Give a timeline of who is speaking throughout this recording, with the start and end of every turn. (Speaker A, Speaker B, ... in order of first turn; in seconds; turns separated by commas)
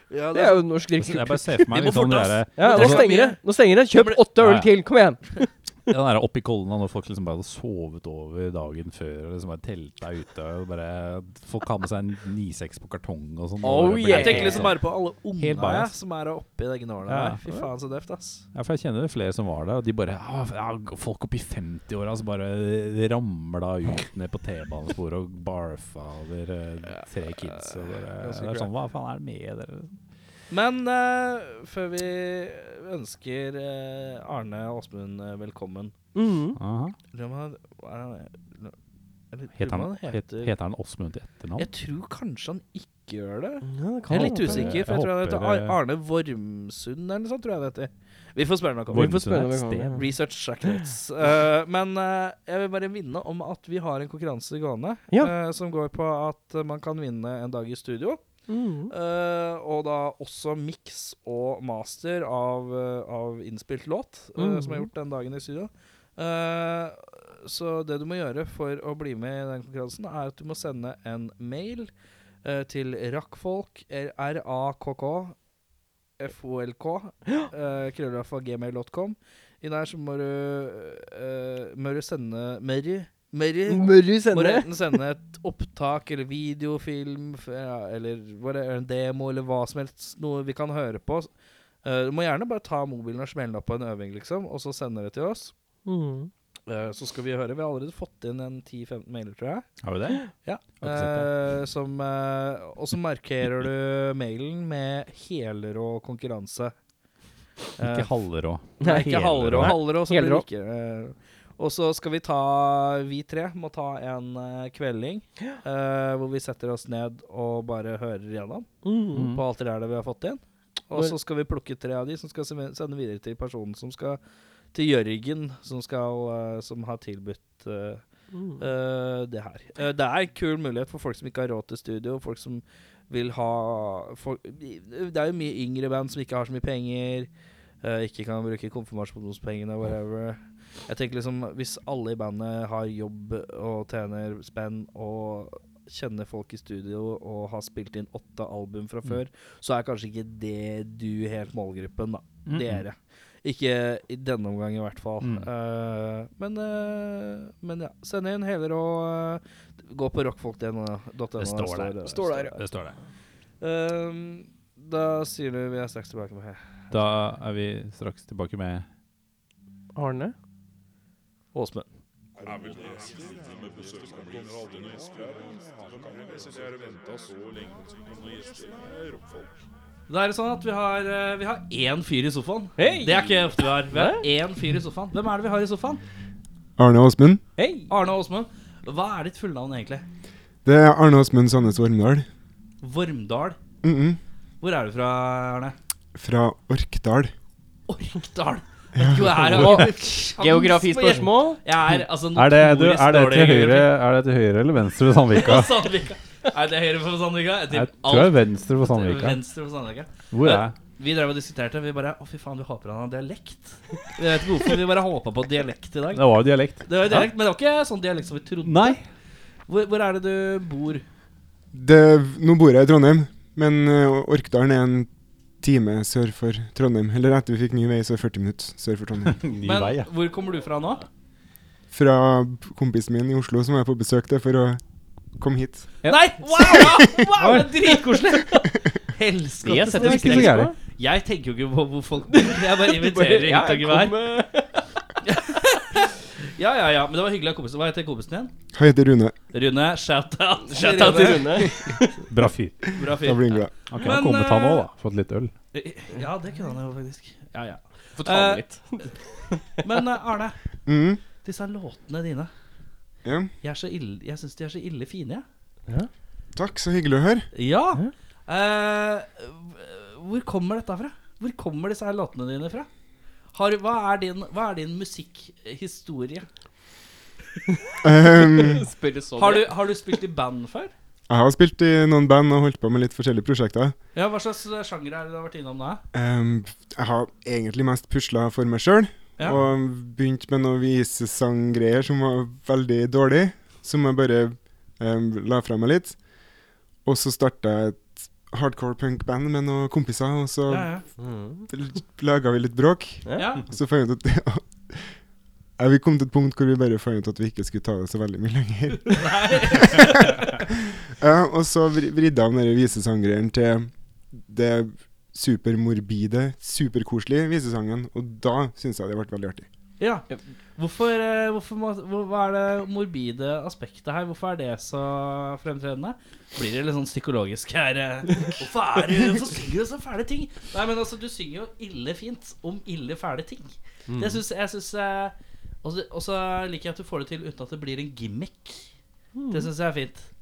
Speaker A: 0.1-0.7, Speaker B: 0.3-1.7, Speaker C: 1.0-3.1, Speaker A: 1.7-3.4, Speaker B: 2.6-5.2, Speaker A: 3.9-4.2, Speaker C: 4.4-4.7, Speaker C: 5.9-14.8, Speaker B: 13.6-14.7, Speaker A: 14.1-18.5, Speaker C: 15.3-15.9, Speaker C: 17.1-17.4, Speaker C: 18.5-30.0, Speaker A: 28.3-28.6, Speaker A: 30.5-35.9, Speaker B: 36.1-36.6, Speaker C: 36.6-37.0, Speaker A: 37.1-38.8, Speaker A: 39.3-40.5, Speaker C: 39.6-41.7, Speaker A: 41.6-58.2, Speaker B: 43.6-44.8, Speaker C: 44.1-45.8, Speaker C: 48.9-50.0, Speaker B: 48.9-50.1, Speaker B: 58.5-58.9, Speaker A: 58.9-71.9, Speaker B: 64.4-64.9, Speaker A: 72.4-75.4, Speaker A: 76.2-91.3, Speaker B: 83.7-85.0, Speaker A: 91.8-95.5, Speaker B: 95.9-96.3, Speaker A: 96.7-99.7, Speaker C: 99.8-100.2, Speaker A: 100.4-106.7, Speaker C: 100.8-101.3, Speaker A: 107.8-108.1, Speaker C: 107.8-109.8, Speaker A: 108.8-124.2, Speaker B: 108.8-110.5, Speaker B: 118.8-119.3, Speaker C: 119.1-119.5, Speaker A: 124.7-128.0, Speaker B: 128.3-128.7, Speaker A: 128.6-137.3, Speaker A: 137.8-162.6, Speaker C: 152.5-152.8, Speaker C: 155.2-155.5, Speaker C: 161.4-163.0, Speaker B: 162.1-162.6, Speaker A: 163.6-167.1, Speaker C: 166.9-168.9, Speaker B: 169.9-170.3, Speaker A: 171.5-171.8, Speaker A: 180.1-186.0, Speaker B: 182.8-184.3, Speaker D: 186.8-187.4, Speaker B: 187.6-187.9, Speaker A: 187.9-190.0, Speaker D: 190.7-192.3, Speaker A: 192.8-193.6, Speaker D: 193.8-194.2, Speaker A: 194.6-195.8, Speaker D: 196.2-197.3, Speaker A: 197.9-203.9, Speaker D: 199.0-199.5, Speaker B: 199.5-201.6, Speaker C: 199.5-199.9, Speaker C: 202.0-205.8, Speaker A: 205.3-216.3, Speaker C: 207.7-209.4, Speaker C: 210.3-210.7, Speaker C: 216.1-217.3, Speaker A: 216.8-219.0, Speaker C: 218.6-219.0, Speaker A: 219.7-221.0, Speaker D: 221.7-229.5, Speaker C: 229.3-230.1, Speaker A: 229.6-231.0, Speaker D: 231.9-234.8, Speaker D: 235.4-235.9, Speaker A: 236.0-244.2, Speaker D: 236.8-237.2, Speaker C: 237.4-237.7, Speaker B: 239.6-240.8, Speaker C: 239.7-240.7, Speaker B: 242.3-244.8, Speaker A: 245.2-248.5, Speaker D: 248.7-249.4, Speaker A: 249.5-252.1, Speaker B: 250.7-252.1, Speaker C: 252.3-253.0, Speaker A: 252.9-254.9, Speaker D: 253.0-253.7, Speaker C: 253.9-255.5, Speaker A: 255.7-259.1, Speaker B: 258.2-259.8, Speaker A: 259.8-260.6, Speaker D: 260.9-261.2, Speaker A: 261.4-262.5, Speaker D: 263.2-263.5, Speaker A: 263.6-265.4, Speaker D: 266.6-267.5, Speaker A: 267.5-272.9, Speaker A: 273.5-276.5, Speaker D: 278.0-278.9, Speaker B: 278.5-279.7, Speaker A: 279.4-280.9, Speaker D: 281.3-284.0, Speaker A: 284.1-286.0, Speaker D: 286.1-296.2, Speaker D: 297.0-301.0, Speaker A: 300.7-301.0, Speaker B: 301.2-301.7, Speaker D: 301.7-305.1, Speaker B: 303.2-303.5, Speaker A: 303.4-303.6, Speaker D: 305.8-319.7, Speaker A: 309.1-310.3, Speaker A: 320.0-338.9, Speaker B: 334.1-334.4, Speaker B: 339.4-339.7, Speaker A: 339.5-340.3